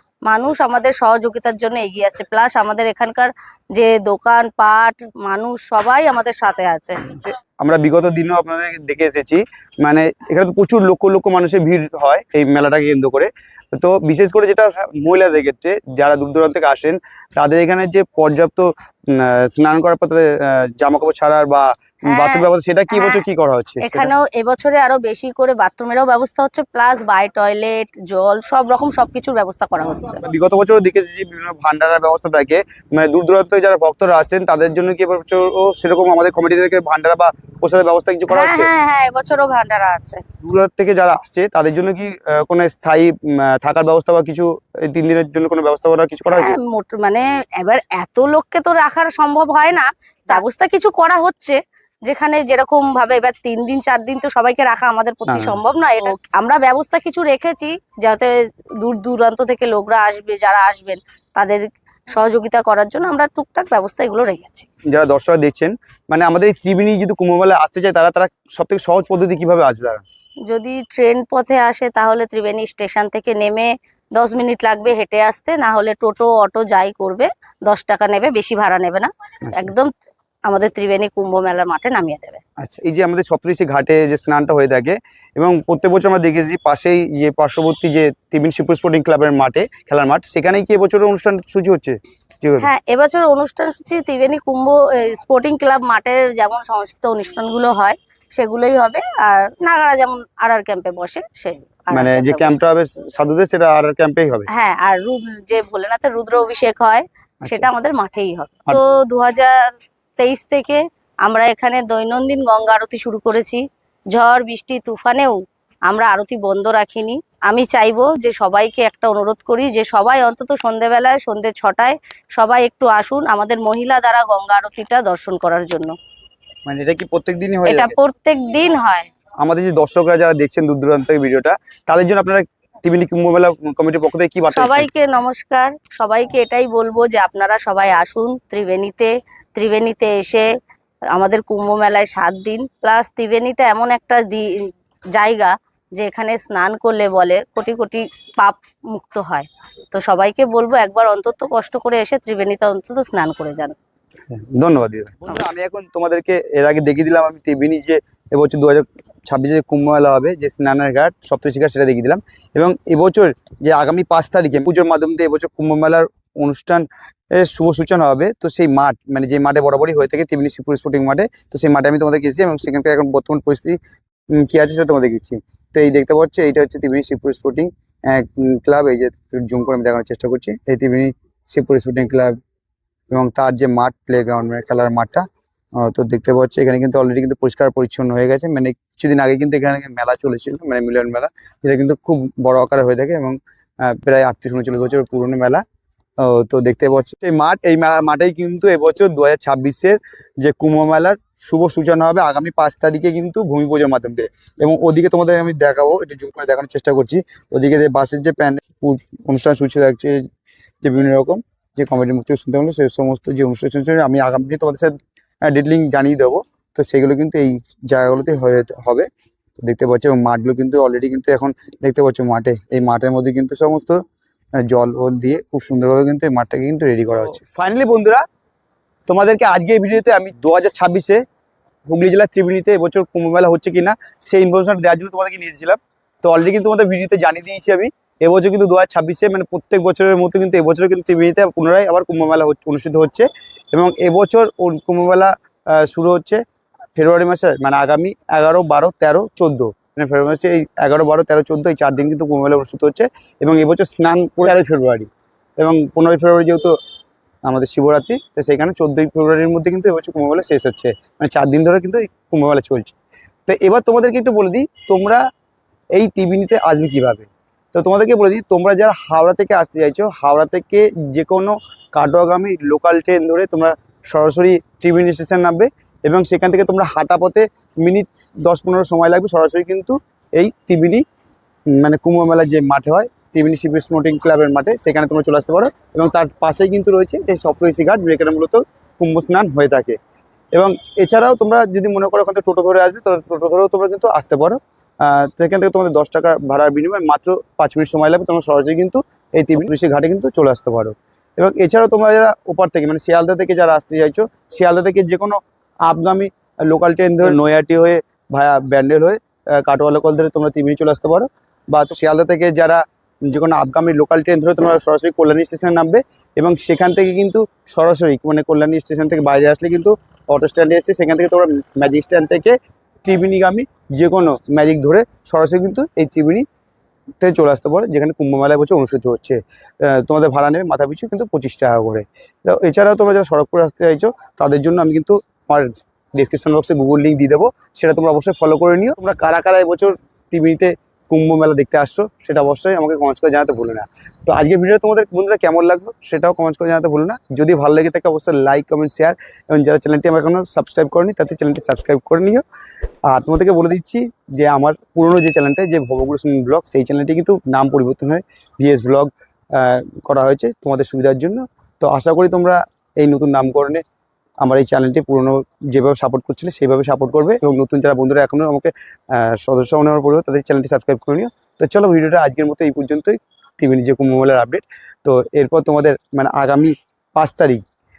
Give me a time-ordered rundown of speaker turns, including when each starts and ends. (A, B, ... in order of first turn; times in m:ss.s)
0:00.3-0:07.2 A
0:07.1-0:24.1 B
0:22.1-0:23.2 A
0:23.8-0:30.2 A
0:30.2-0:38.7 B
0:38.3-0:40.2 A
0:40.4-0:46.6 B
0:46.3-1:04.7 A
0:55.3-0:55.6 B
1:04.9-1:10.0 B
1:10.5-1:19.9 A
1:20.5-1:22.4 A
1:22.6-1:32.7 B
1:32.6-1:42.6 A
1:41.9-1:44.5 B
1:44.5-2:06.0 A
1:47.4-1:47.7 B
2:06.7-2:08.0 B
2:07.7-2:09.1 A
2:09.4-2:14.9 B
2:14.5-2:20.5 A
2:21.1-2:33.8 A
2:34.3-2:53.8 B
2:54.3-3:02.4 B
3:03.1-3:15.6 B
3:16.2-3:30.3 B
3:30.8-3:35.0 B
3:35.5-3:44.0 B
3:44.6-3:48.2 B
3:49.1-3:51.2 B
3:51.9-4:06.4 B
4:07.0-4:16.8 B
4:17.5-4:25.2 B
4:25.9-4:41.0 B
4:41.7-4:50.0 B
4:50.6-5:26.5 B
5:27.2-5:52.4 B
5:53.1-6:03.8 B
6:04.4-6:17.6 B